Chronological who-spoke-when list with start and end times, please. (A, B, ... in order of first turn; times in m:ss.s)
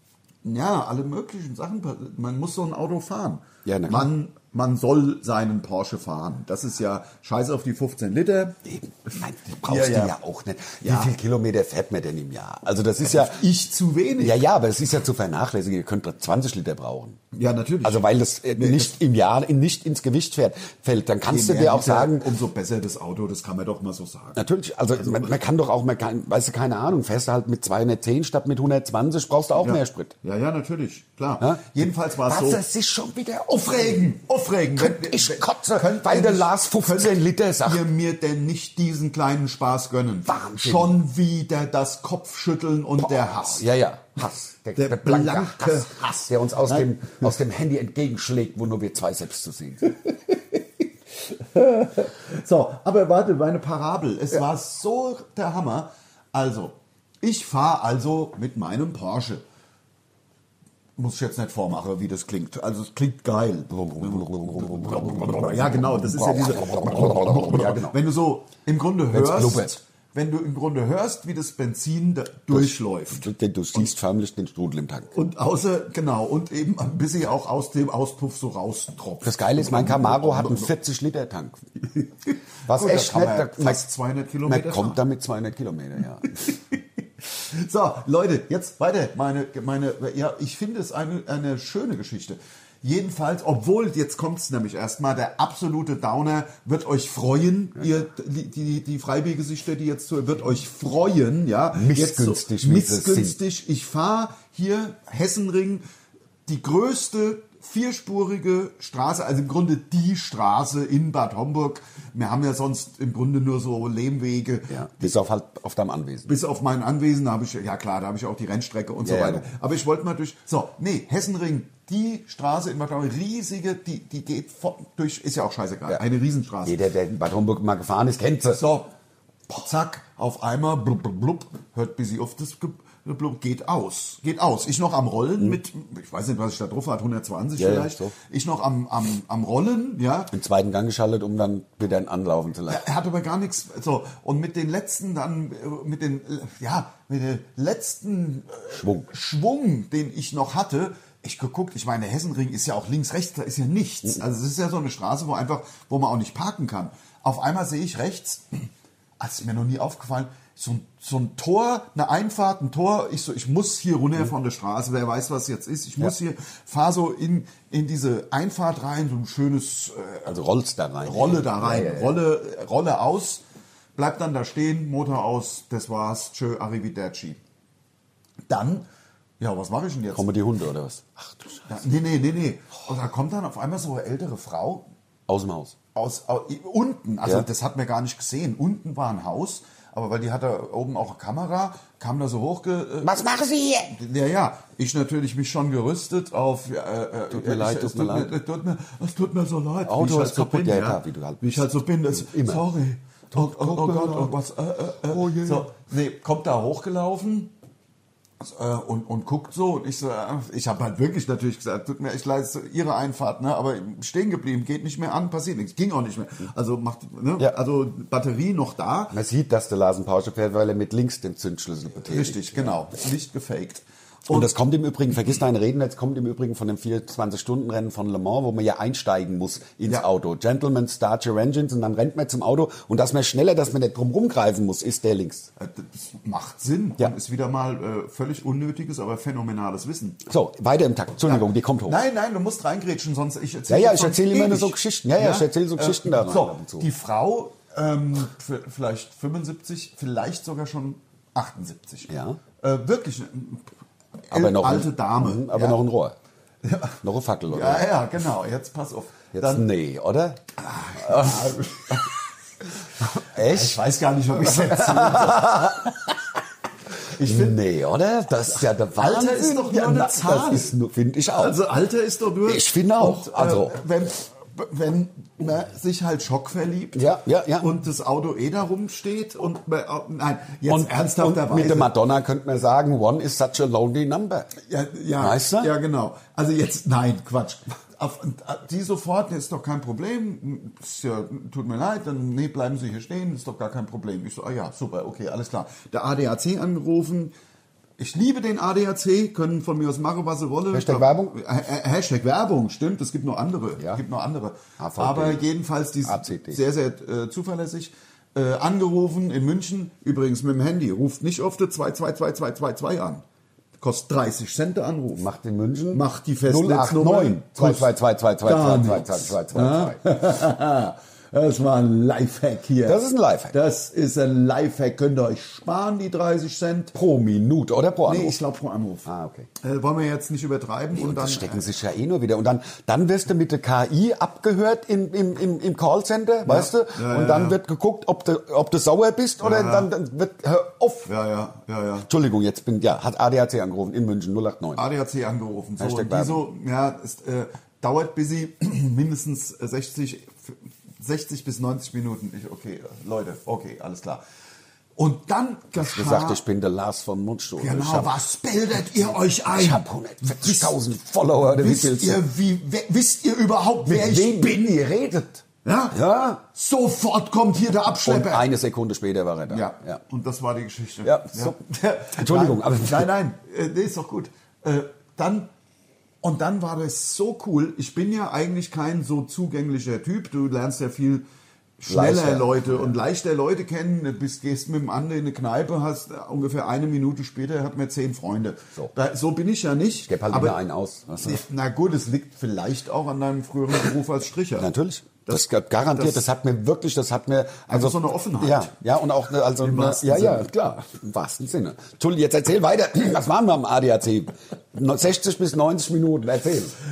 0:00.4-0:10.2 A
0:03.6-0:04.1 B
0:08.7-0:13.4 B
0:10.8-0:11.1 A
0:13.0-0:14.4 A
0:14.2-0:17.2 B
0:17.3-0:18.9 A
0:17.8-0:22.3 B
0:21.3-0:24.4 A
0:24.4-0:30.1 B
0:25.0-0:25.3 A
0:29.6-0:32.6 A
0:31.4-0:34.1 B
0:33.6-0:43.7 A
0:34.8-0:37.8 B
0:40.3-0:40.9 B
0:43.2-0:49.9 B
0:44.8-0:47.2 A
0:50.0-0:50.6 A
0:51.2-0:59.4 A
1:01.0-1:13.9 A
1:03.7-1:08.0 B
1:09.1-1:09.8 B
1:12.5-1:15.1 B
1:15.1-1:20.7 A
1:19.2-1:21.6 B
1:22.3-1:25.0 A
1:22.7-1:23.8 B
1:24.5-1:26.5 B
1:27.3-1:45.8 A
1:41.7-1:43.4 B
1:46.5-1:55.2 A
1:54.7-1:56.3 B
1:56.3-2:06.8 A
1:59.0-1:59.5 B
2:06.6-2:08.6 B
2:08.5-2:08.9 A
2:09.5-2:20.3 A
2:17.6-2:18.1 B
2:20.3-2:22.8 B
2:22.7-2:50.4 A
2:28.7-2:29.1 B
2:50.3-2:52.2 B
2:51.0-2:53.4 A
2:54.0-2:57.4 A
2:58.5-2:58.9 A
2:59.4-3:00.3 A
3:00.1-3:01.7 B
3:01.7-3:04.9 A
3:05.3-3:05.8 B
3:06.0-3:13.2 A
3:13.0-3:14.0 B
3:13.9-3:27.5 A
3:17.3-3:18.3 B
3:19.8-3:22.6 B
3:23.3-3:24.4 B
3:25.1-3:25.7 B
3:28.4-3:39.2 A
3:39.1-3:42.8 B
3:42.0-3:44.5 A
3:44.3-3:55.5 B
3:55.6-4:00.2 A
4:00.3-4:02.0 B
4:01.2-4:13.7 A
4:03.7-4:06.9 B
4:12.1-4:12.4 B
4:14.2-4:15.8 A
4:14.3-4:16.2 B
4:16.6-4:19.7 A
4:17.0-4:17.9 B
4:19.3-4:20.4 B
4:20.6-4:22.2 A
4:21.0-4:21.6 B
4:23.1-4:25.9 A
4:23.2-4:23.8 B
4:24.4-4:25.9 B
4:27.1-4:27.6 A
4:27.2-4:31.6 B
4:28.5-4:30.8 A
4:31.4-4:41.9 A
4:32.5-4:33.8 B
4:37.0-4:37.7 B
4:40.7-4:44.5 B
4:44.6-4:57.3 A
4:45.2-4:45.7 B
4:58.0-5:13.2 A
5:00.7-5:01.4 B
5:04.8-5:05.4 B
5:06.0-5:06.6 B
5:13.8-5:15.3 A
5:15.2-5:20.0 B
5:15.9-5:17.9 A
5:18.4-5:27.0 A
5:22.8-5:23.6 B
5:26.9-5:28.4 B
5:28.0-5:31.7 A
5:29.1-5:29.5 B
5:30.9-5:41.1 B
5:36.4-5:37.6 A
5:39.4-5:39.9 A
5:41.0-5:42.1 A
5:42.1-5:44.8 B
5:44.8-5:54.2 A
5:45.8-5:46.4 B
5:55.0-5:56.4 A
5:55.8-5:58.2 B
5:57.6-6:00.8 A
5:59.5-6:02.2 B
6:01.5-6:04.7 A
6:03.9-6:06.4 B
6:05.6-6:08.5 A
6:08.0-6:10.0 B
6:09.5-6:15.5 A
6:11.0-6:11.6 B
6:12.1-6:13.1 B
6:16.2-6:21.2 A
6:21.8-6:30.6 A
6:21.9-6:23.0 B
6:30.1-6:31.4 B
6:31.2-6:34.7 A
6:34.6-6:46.8 B
6:35.2-6:36.3 A
6:37.7-6:38.7 A
6:39.6-6:40.5 A